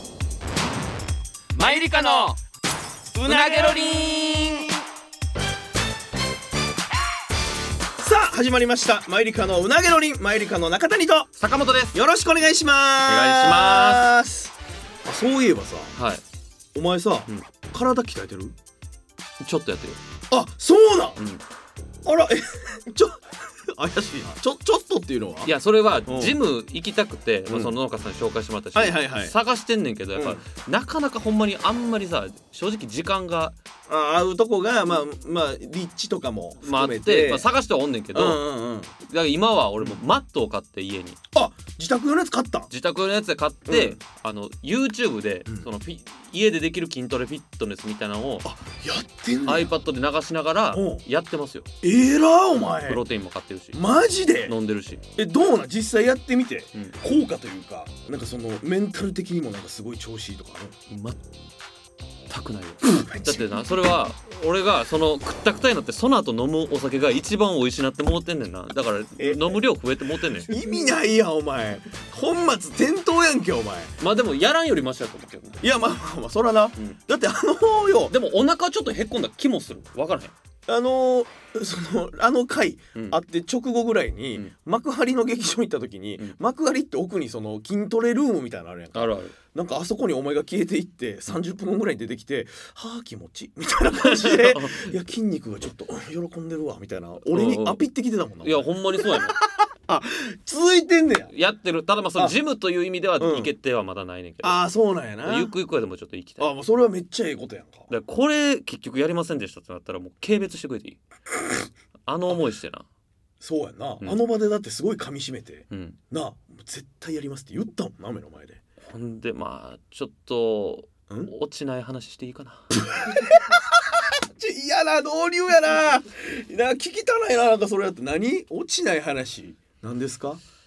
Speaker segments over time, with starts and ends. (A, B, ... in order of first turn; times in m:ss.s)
0:01.5-0:02.4 A
0:03.1-0:04.7 A
0:03.2-0:03.9 B
0:08.0-0:11.3 B
0:11.4-0:11.9 A
0:11.9-0:14.5 B
0:13.0-0:14.1 A
0:15.0-0:15.9 B
0:16.0-0:16.2 A
0:16.7-0:18.6 B
0:19.4-0:20.0 A
0:20.3-0:21.2 B
0:21.2-0:21.4 A
0:22.0-0:25.5 B
0:25.4-0:33.6 A
0:26.0-0:26.4 B
0:27.5-0:27.7 B
0:28.7-0:29.3 B
0:30.2-0:30.4 B
0:33.9-0:37.5 B
0:36.6-0:38.4 A
0:38.1-0:38.9 B
0:39.0-0:41.2 A
0:41.3-0:42.7 B
0:42.7-0:48.5 A
0:43.7-0:44.0 B
0:48.4-0:49.7 B
0:49.4-0:51.7 A
0:50.7-0:51.0 B
0:51.8-0:53.0 B
0:52.8-0:53.8 A
0:53.7-0:54.5 B
0:54.4-0:55.0 A
0:55.2-1:00.7 B
0:56.7-0:57.0 A
1:00.9-1:01.2 A
1:02.3-1:10.5 A
1:02.8-1:03.8 B
1:09.2-1:09.6 B
1:10.4-1:13.9 B
1:14.0-1:15.6 A
1:15.6-1:18.1 B
1:18.1-1:20.3 A
1:20.7-1:41.3 B
1:28.9-1:29.3 A
1:33.9-1:34.9 A
1:37.3-1:37.8 A
1:38.4-1:39.4 A
1:41.3-1:44.6 A
1:43.2-1:43.5 B
1:44.4-1:45.5 B
1:45.2-1:46.5 A
1:46.4-1:47.9 B
1:47.9-1:51.0 A
1:52.0-1:52.8 A
1:53.4-1:58.6 B
1:55.7-1:56.0 A
1:58.8-2:02.7 A
2:02.9-2:10.4 B